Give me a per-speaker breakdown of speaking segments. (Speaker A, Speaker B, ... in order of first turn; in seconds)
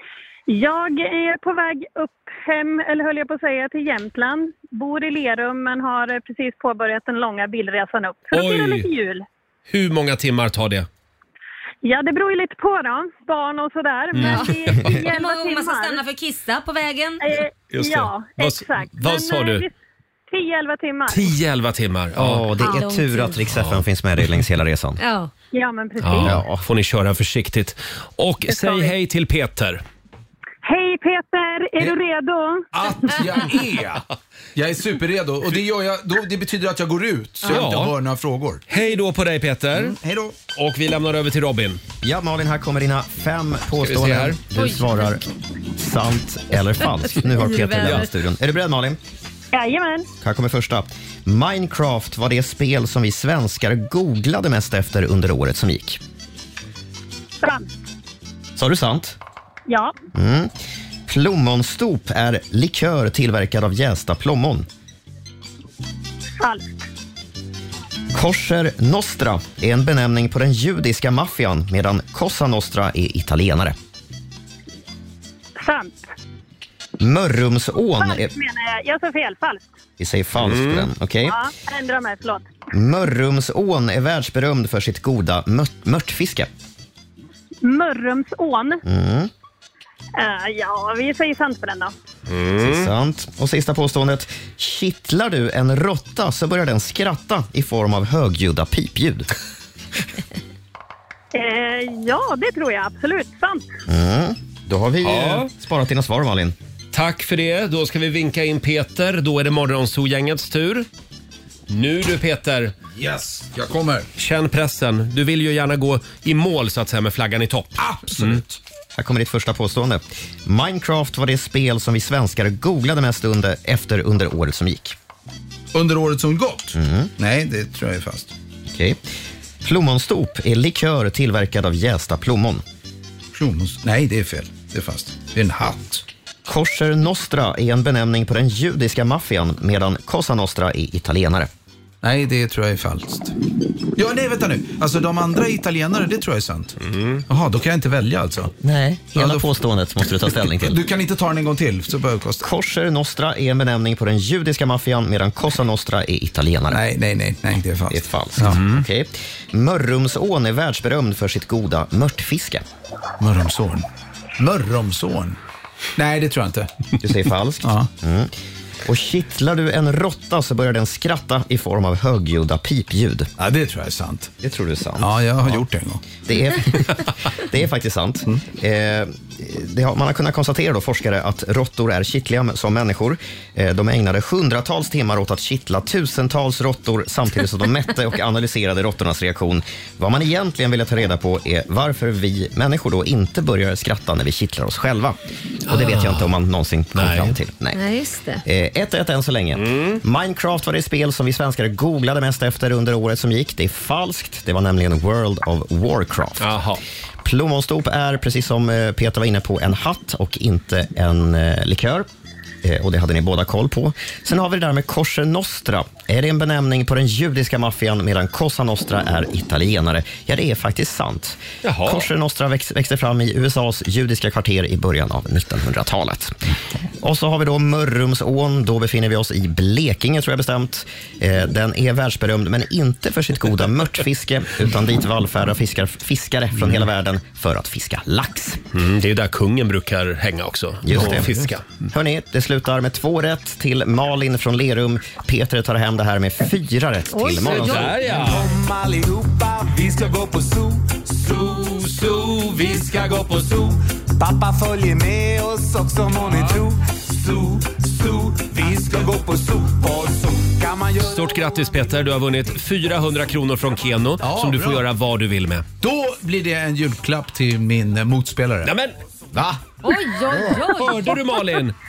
Speaker A: 0.5-9.2, 11.8-16.0, 17.2-19.7, 20.3-21.3, 25.5-26.4, 28.5-28.9, 30.6-32.7, 49.5-50.1, 57.4-57.7, 59.7-59.9, 66.4-66.8, 75.6-76.1, 78.0-79.7, 81.2-82.5, 87.6-88.8, 90.2-91.9, 101.3-103.7
Speaker B: 8.3-8.9, 9.7-10.9, 14.2-15.0, 17.7-19.6, 21.1-22.5, 23.5-23.8, 26.0-29.8, 37.5-38.0, 38.7-40.0, 40.5-41.8, 43.8-44.4, 47.7-48.1, 80.4-80.9, 92.3-92.9, 105.0-105.5, 106.9-110.9, 111.7-112.7, 114.2-118.4, 146.8-147.2, 195.7-196.3, 197.0-197.4, 199.6-200.0, 206.4-206.8, 221.6-222.1, 238.7-241.7, 247.4-248.5, 261.0-265.7, 268.6-268.9, 270.6-271.8
Speaker C: 14.2-17.3, 22.6-23.4, 25.0-25.3, 44.6-45.2, 46.8-48.1, 197.7-198.4, 247.1-248.0, 269.8-271.4
Speaker D: 22.1-25.0, 26.2-26.6, 42.0-45.2, 45.8-49.0, 50.2-56.0, 58.6-59.2, 60.1-60.5, 61.1-64.7, 68.1-73.8, 77.0-78.3, 80.0-81.4, 82.7-86.5, 88.8-89.3, 92.6-99.3, 103.9-106.6, 119.0-125.0, 126.8-127.1, 128.7-129.0, 129.6-132.6, 136.5-141.5, 148.6-150.8, 152.4-156.8, 157.9-162.6, 167.0-168.3, 168.8-173.3, 174.4-175.6, 176.3-197.8, 198.4-206.6, 207.2-212.1, 212.6-226.4, 227.0-238.6, 240.9-241.4, 241.9-248.0
Speaker E: 32.7-38.6, 39.7-40.4, 113.0-114.1, 117.8-118.6, 125.7-128.3, 133.3-136.1, 142.0-143.3, 144.0-146.8, 147.3-148.5, 149.2-149.5, 150.6-152.5, 156.7-158.6, 163.2-163.9, 164.4-165.4, 166.0-166.7, 173.4-174.3, 175.0-176.1, 240.9-241.5, 256.3-256.6, 264.2-264.9, 265.8-268.7, 269.4-269.6
Speaker F: 248.1-261.9